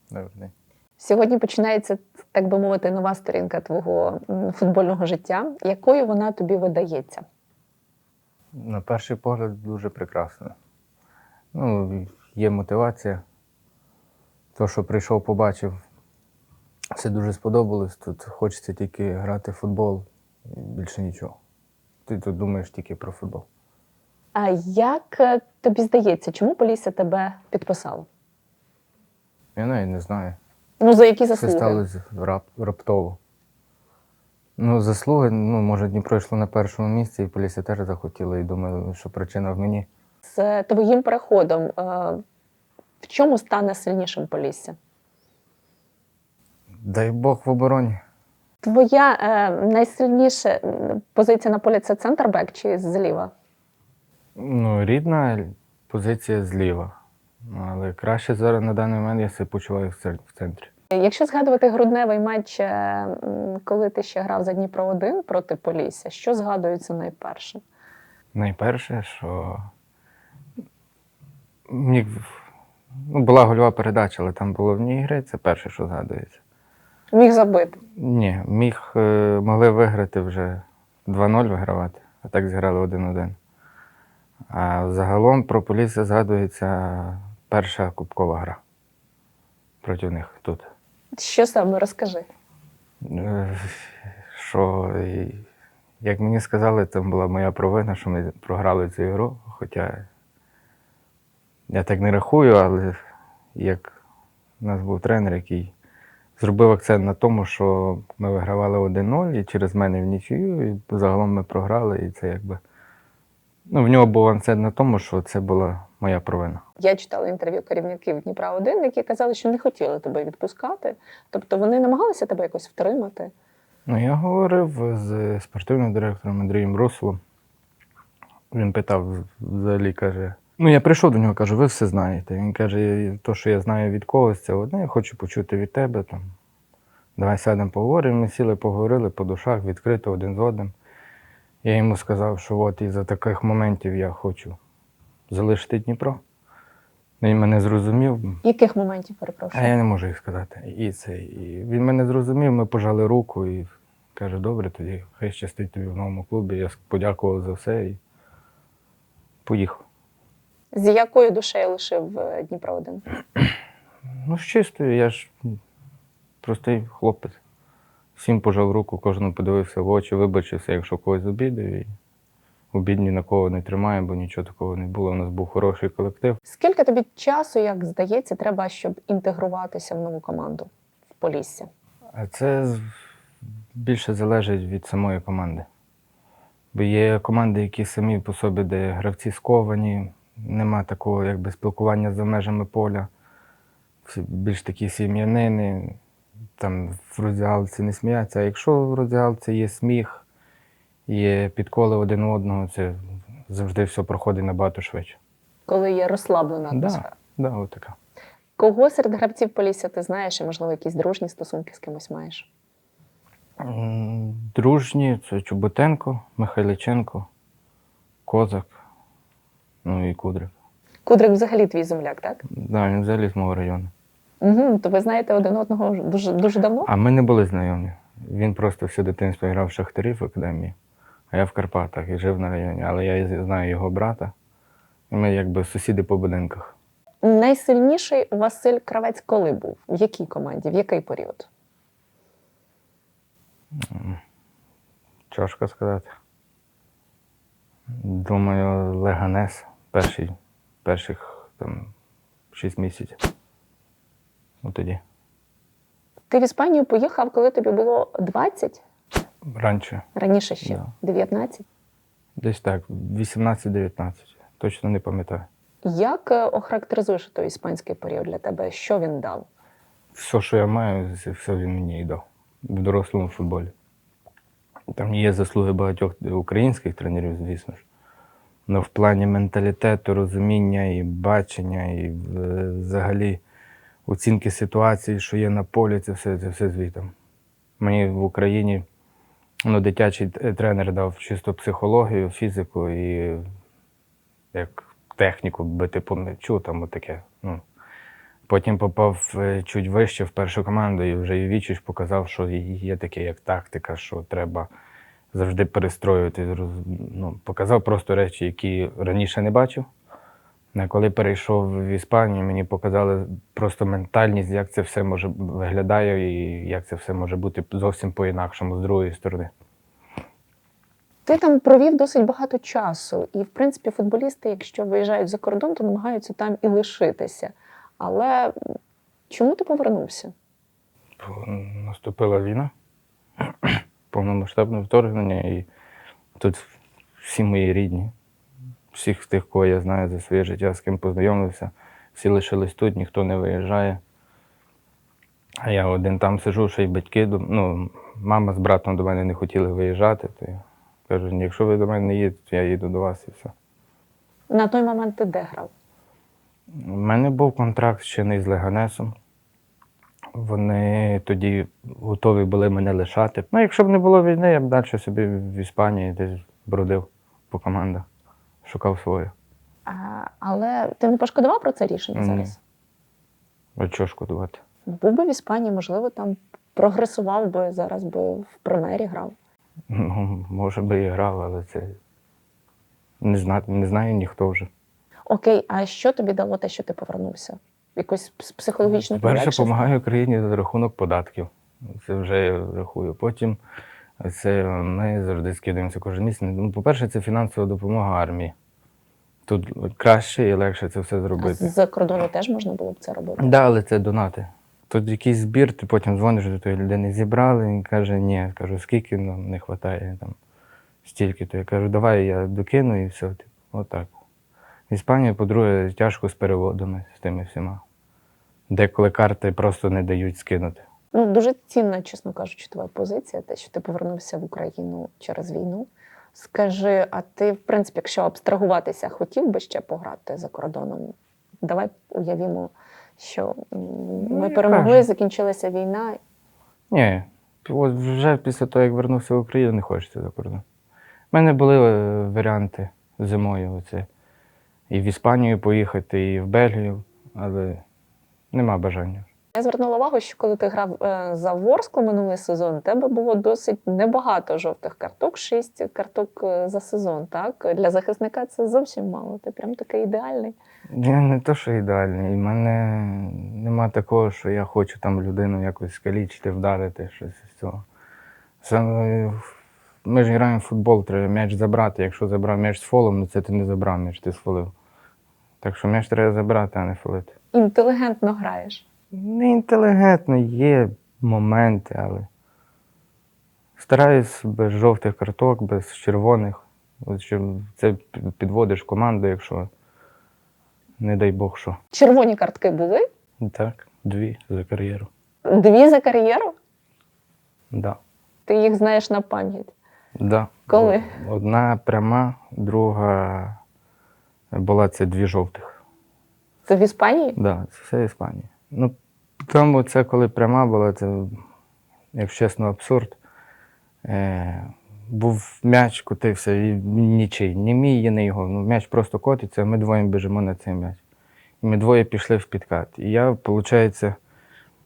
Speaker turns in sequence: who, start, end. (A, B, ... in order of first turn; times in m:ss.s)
0:00.1-0:00.5 A
0:01.0-0:07.2 B
0:08.5-0:10.6 A
0:11.5-0:13.2 A
0:14.6-0:15.8 A
0:17.0-0:21.4 A
0:22.1-0:23.5 A
0:24.4-0:28.1 B
0:29.6-0:30.4 A
0:30.8-0:31.8 B
0:31.4-0:33.2 A
0:34.6-0:39.9 A
0:40.3-0:42.2 B
0:43.0-0:44.8 B
0:46.8-0:48.0 A
0:48.6-0:53.3 B
0:54.4-0:56.9 A
0:57.4-1:00.7 A
1:00.9-1:07.6 B
1:08.3-1:09.6 A
1:11.7-1:12.4 A
1:13.1-1:16.4 A
1:17.1-1:17.8 B
1:18.0-1:23.4 A
1:24.5-1:28.6 A
1:29.8-1:30.7 A
1:31.2-1:32.3 B
1:33.0-1:35.4 A
1:36.0-1:40.1 A
1:41.7-1:43.0 A
1:43.6-1:44.0 A
1:44.6-1:45.7 A
1:46.4-1:52.6 A
1:53.7-1:56.6 A
1:56.8-2:03.3 B
2:03.9-2:07.2 A
2:08.5-2:16.3 A
2:17.2-2:20.7 A
2:21.6-2:24.6 A
2:25.3-2:26.2 A
2:27.2-2:28.4 A
2:28.4-2:29.7 B
2:29.5-2:38.0 A
2:39.4-2:39.8 A
2:40.7-2:43.0 B
2:44.2-2:45.6 A
2:46.4-2:47.4 A
2:48.2-2:51.9 A
2:52.7-2:56.4 A
2:56.5-3:01.7 B
3:02.1-3:02.8 A
3:03.8-3:05.7 A
3:06.7-3:13.1 A
3:14.0-3:16.0 A
3:16.6-3:20.3 A
3:21.1-3:25.2 A
3:25.7-3:27.1 B
3:26.7-3:28.0 A
3:28.6-3:32.5 B
3:33.6-3:37.3 A
3:38.3-3:38.8 A
3:39.8-3:40.5 A
3:41.0-3:42.4 B
3:42.5-3:43.9 A
3:44.4-3:46.9 B
3:46.9-3:50.8 A
3:51.3-3:54.3 A
3:55.1-3:56.8 A
3:57.2-4:01.5 B
4:03.8-4:04.2 A
4:05.3-4:06.1 A
4:07.9-4:10.3 A
4:10.8-4:11.9 A
4:12.5-4:13.2 A
4:14.6-4:15.0 A
4:16.3-4:18.8 B
4:19.5-4:20.0 A
4:20.2-4:21.6 B
4:22.4-4:25.5 A
4:25.8-4:29.5 B
4:30.1-4:33.7 A
4:34.9-4:37.8 A
4:38.7-4:43.4 A
4:44.1-4:47.1 A
4:47.8-4:48.8 A
4:49.6-4:53.4 A
4:54.5-4:57.6 A
4:58.5-5:04.7 A
5:05.3-5:09.9 A
5:10.7-5:19.5 A
5:21.3-5:28.5 B
5:29.3-5:30.3 B
5:31.2-5:32.7 A
5:33.5-5:35.7 A
5:36.4-5:36.7 A
5:37.2-5:38.1 A
5:38.9-5:44.0 A
5:45.6-5:53.5 A
5:54.5-5:55.7 B
5:56.8-5:59.2 A
6:00.4-6:08.1 A
6:08.6-6:09.3 A
6:09.9-6:12.6 B
6:12.2-6:12.5 A
6:13.8-6:14.6 A
6:14.9-6:19.4 B
6:19.9-6:22.0 A
6:23.2-6:24.7 A
6:25.3-6:29.8 B
6:29.1-6:33.6 A
6:34.2-6:38.5 A
6:39.5-6:41.7 A
6:41.4-6:43.5 B
6:43.4-6:50.4 A
6:51.0-6:54.1 A
6:54.9-6:57.8 A
6:58.7-7:00.8 A
7:01.1-7:16.2 B
7:14.2-7:15.1 A
7:16.9-7:20.6 A
7:21.3-7:24.1 A
7:24.9-7:27.8 A
7:28.5-7:29.3 A
7:29.6-7:40.6 B
7:40.9-7:47.8 A
7:48.6-7:49.5 A
7:50.0-7:54.7 A
7:55.6-7:57.3 A
7:57.5-7:58.8 B
7:59.1-8:02.3 A
8:03.8-8:09.7 A
8:11.0-8:11.8 A
8:11.9-8:13.0 B
8:13.4-8:15.1 A
8:15.5-8:16.5 B
8:17.7-8:18.0 A
8:18.5-8:19.7 B
8:20.2-8:23.6 A
8:20.7-8:21.1 B
8:24.5-8:25.8 A
8:26.7-8:27.4 B
8:27.4-8:31.4 A
8:32.1-8:33.2 A
8:34.0-8:41.0 A
8:41.6-8:44.2 A